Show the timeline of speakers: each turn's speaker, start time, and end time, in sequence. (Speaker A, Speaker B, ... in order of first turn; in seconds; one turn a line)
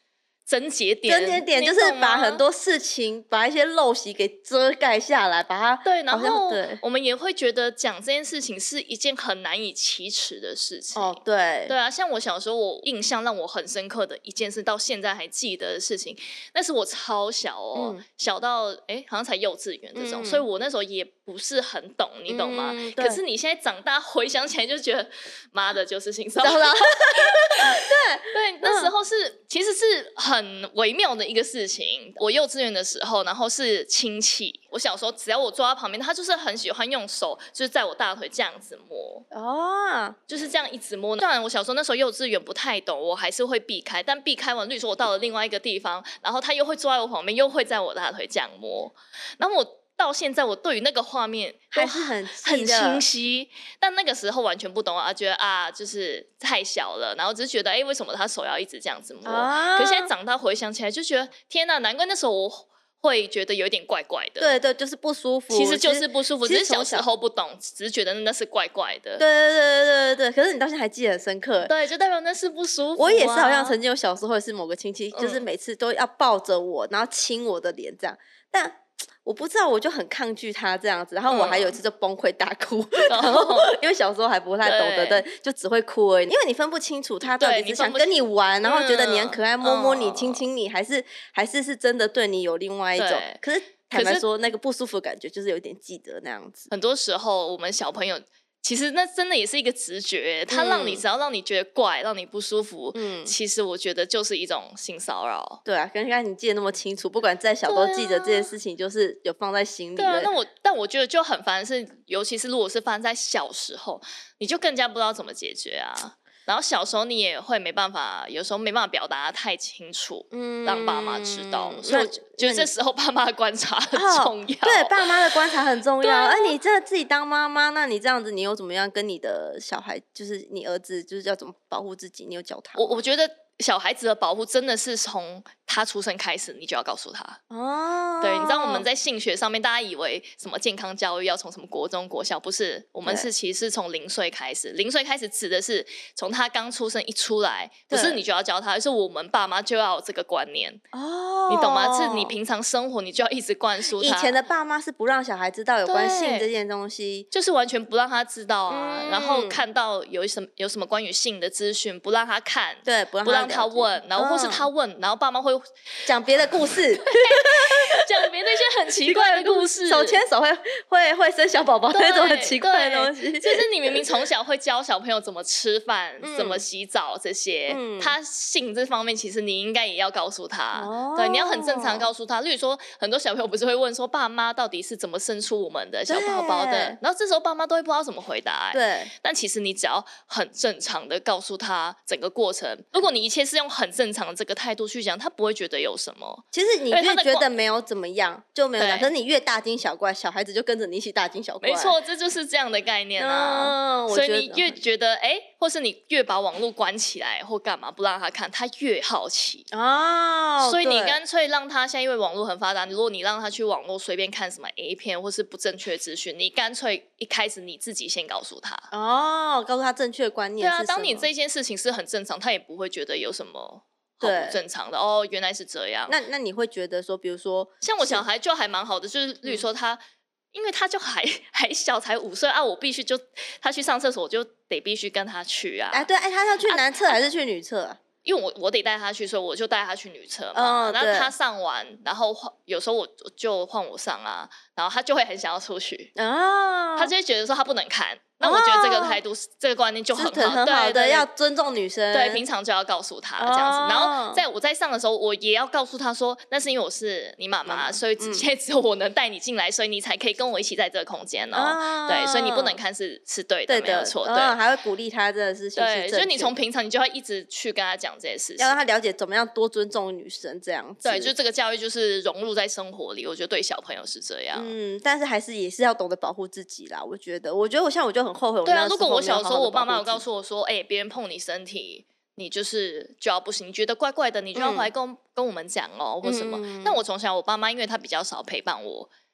Speaker A: 0.5-2.4
Speaker B: 1.1-6.8
Speaker A: 5.8-39.2
Speaker B: 10.9-11.7
Speaker B: 17.7-18.0
Speaker B: 19.9-20.4
Speaker B: 22.3-23.2
Speaker B: 26.4-28.9
Speaker B: 39.3-40.2
Speaker A: 40.3-64.5
Speaker B: 51.7-53.0
Speaker B: 59.2-60.1
Speaker B: 64.4-67.1
Speaker A: 65.5-69.2
Speaker B: 69.2-71.7
Speaker A: 71.6-73.8
Speaker B: 73.0-96.7
Speaker A: 75.1-75.4
Speaker A: 81.3-81.8
Speaker A: 83.0-83.8
Speaker A: 84.6-85.2
Speaker A: 87.3-90.4
Speaker A: 93.0-93.4
Speaker A: 93.9-94.2
Speaker A: 96.7-105.6
Speaker B: 100.5-101.0
Speaker B: 102.9-103.3
Speaker B: 105.6-110.3
Speaker A: 107.7-108.5
Speaker A: 110.0-125.3
Speaker B: 120.3-122.7
Speaker B: 123.9-133.0
Speaker A: 126.0-126.5
Speaker A: 132.8-137.4
Speaker B: 137.5-138.8
Speaker A: 138.2-150.8
Speaker B: 147.9-148.2
Speaker B: 150.9-152.3
Speaker A: 151.5-154.4
Speaker B: 153.9-157.3
Speaker A: 155.8-156.5
Speaker A: 157.3-166.1
Speaker B: 158.7-159.6
Speaker B: 162.8-164.7
Speaker B: 166.1-168.0
Speaker A: 167.0-170.2
Speaker B: 169.0-174.0
Speaker A: 171.9-197.5
Speaker B: 176.2-176.6
Speaker B: 177.7-178.1
Speaker B: 180.7-182.1
Speaker B: 186.1-187.0
Speaker B: 188.7-189.1
Speaker B: 196.5-201.9
Speaker A: 198.8-199.1
Speaker A: 201.6-209.7
Speaker B: 203.2-204.8
Speaker B: 209.7-211.2
Speaker A: 210.6-218.9
Speaker B: 218.9-221.3
Speaker A: 220.6-226.2
Speaker B: 224.2-224.6
Speaker B: 226.1-228.2
Speaker A: 227.8-230.0
Speaker A: 230.5-236.1
Speaker B: 235.9-238.0
Speaker A: 236.7-237.2
Speaker A: 238.2-246.1
Speaker B: 240.5-241.3
Speaker B: 246.2-247.1
Speaker A: 246.9-251.3
Speaker B: 248.4-249.2
Speaker B: 250.1-252.4
Speaker A: 252.1-264.6
Speaker B: 253.4-254.4
Speaker B: 257.6-258.5
Speaker B: 261.5-262.8
Speaker B: 263.7-266.6
Speaker A: 265.7-268.8
Speaker B: 268.6-271.3
Speaker A: 271.0-274.7
Speaker B: 274.5-280.2
Speaker A: 278.6-289.1
Speaker B: 284.5-284.9
Speaker B: 286.2-287.0